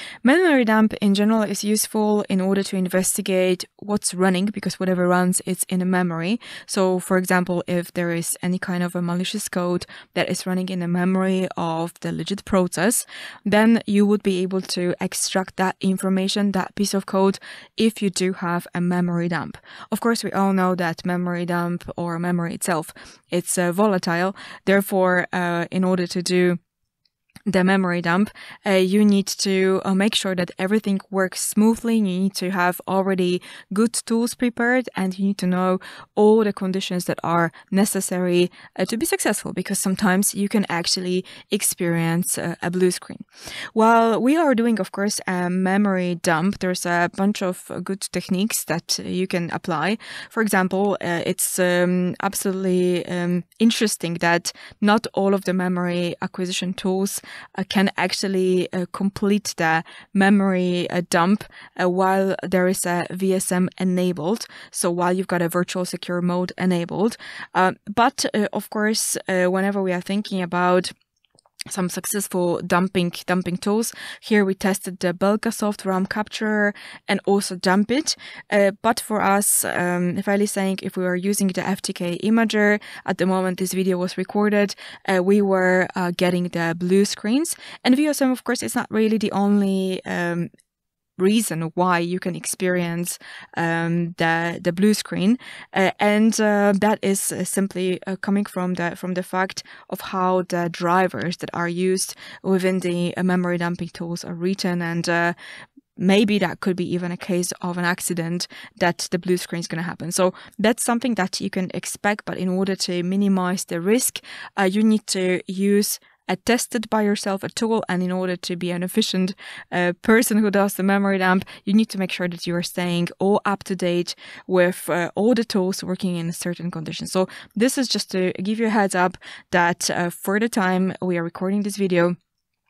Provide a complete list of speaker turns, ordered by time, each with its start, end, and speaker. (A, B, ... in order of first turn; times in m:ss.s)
0:00.2-0:26.6 A
0:27.5-1:10.9 A
1:11.7-1:30.5 A
1:31.2-1:45.4 A
1:46.0-2:12.2 A